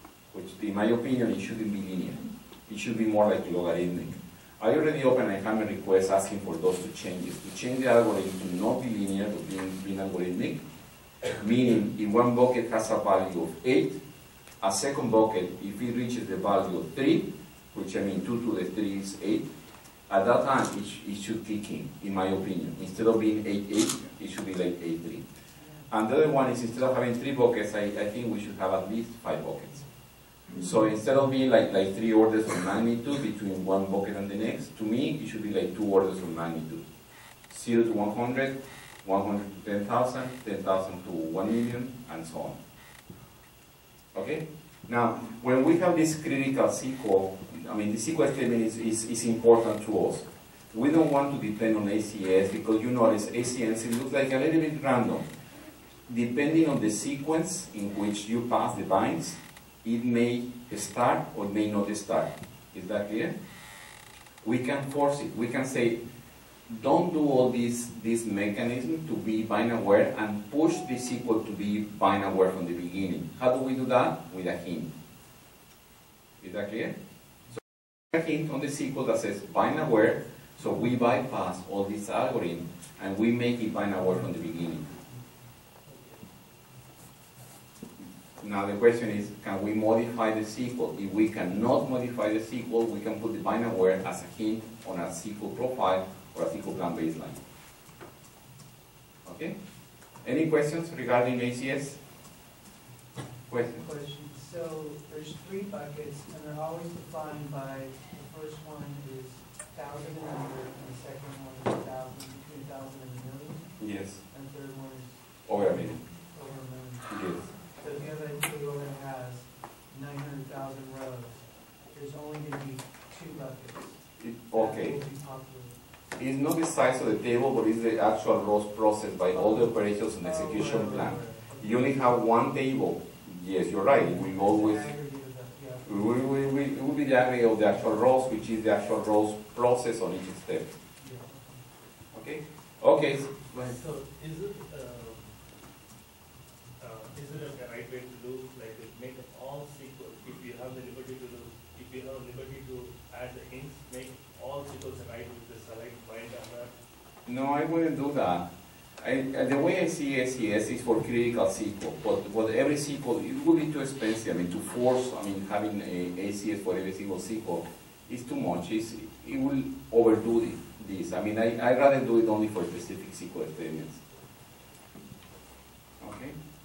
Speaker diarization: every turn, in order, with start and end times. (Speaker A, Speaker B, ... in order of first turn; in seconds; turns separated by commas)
Speaker A: 0.3-10.6, Speaker A: 11.4-14.0, Speaker A: 14.6-19.5, Speaker A: 20.1-25.2, Speaker B: 25.6-25.9, Speaker A: 25.9-29.9, Speaker A: 30.5-36.8, Speaker A: 37.5-42.6, Speaker A: 44.1-55.3, Speaker A: 56.1-63.4, Speaker A: 64.4-66.0, Speaker A: 66.7-74.9, Speaker A: 76.4-76.9, Speaker A: 78.1-84.9, Speaker C: 85.8-86.3, Speaker A: 88.4-97.4, Speaker A: 99.2-99.5, Speaker A: 100.2-102.0, Speaker A: 103.5-103.9, Speaker B: 103.7-125.8, Speaker A: 113.8-114.2, Speaker A: 115.5-116.0, Speaker A: 117.1-117.5, Speaker A: 124.2-125.0, Speaker A: 126.2-134.9, Speaker B: 129.3-131.9, Speaker C: 130.7-131.3, Speaker B: 133.9-136.1, Speaker A: 135.8-140.8, Speaker B: 141.0-141.6, Speaker A: 142.1-143.8, Speaker C: 143.6-145.3, Speaker C: 146.8-156.7, Speaker A: 157.2-158.5, Speaker A: 159.0-174.0, Speaker A: 176.0-176.3